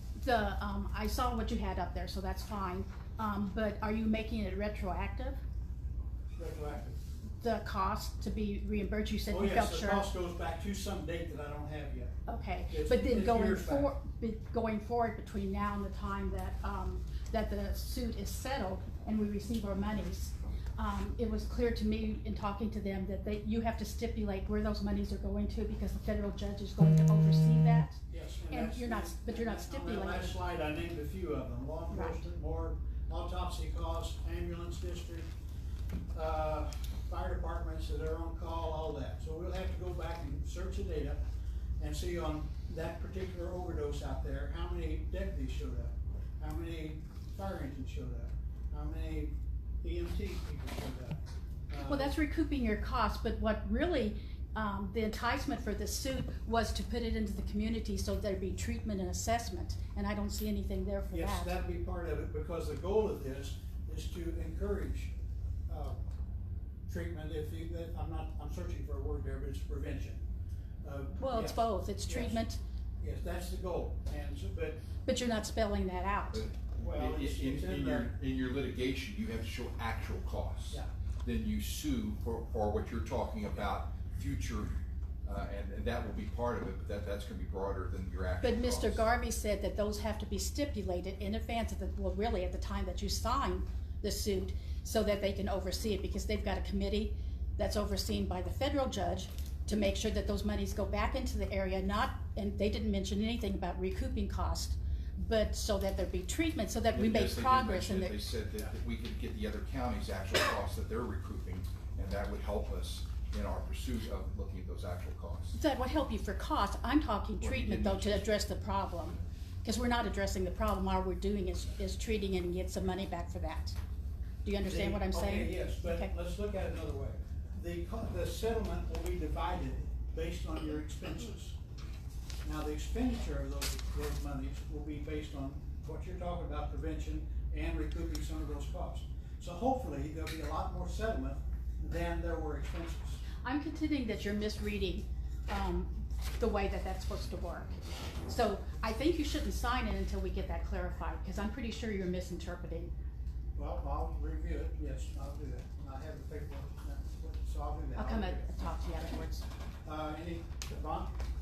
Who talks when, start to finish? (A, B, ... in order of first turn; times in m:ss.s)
0:00.2-0:05.4 A
0:06.4-0:07.0 B
0:07.4-0:10.0 A
0:09.3-0:12.1 B
0:12.2-0:30.4 A
0:12.7-0:13.9 B
0:28.1-0:35.3 B
0:31.9-0:32.2 A
0:36.1-0:41.2 B
0:41.8-0:52.1 B
0:51.8-1:01.6 A
1:01.1-1:05.1 B
1:05.7-1:06.0 B
1:06.9-1:10.2 B
1:10.8-1:12.4 B
1:11.2-1:12.6 A
1:13.0-1:14.8 B
1:15.0-1:16.4 A
1:16.3-1:29.0 C
1:16.8-1:18.1 B
1:28.4-1:48.2 A
1:46.9-1:55.6 C
1:55.5-2:03.8 A
1:57.4-1:58.3 C
2:04.4-2:06.1 A
2:04.6-2:11.6 B
2:12.4-2:23.2 B
2:23.4-2:32.9 A
2:33.6-2:39.2 B
2:37.9-2:39.4 A
2:39.8-2:41.2 B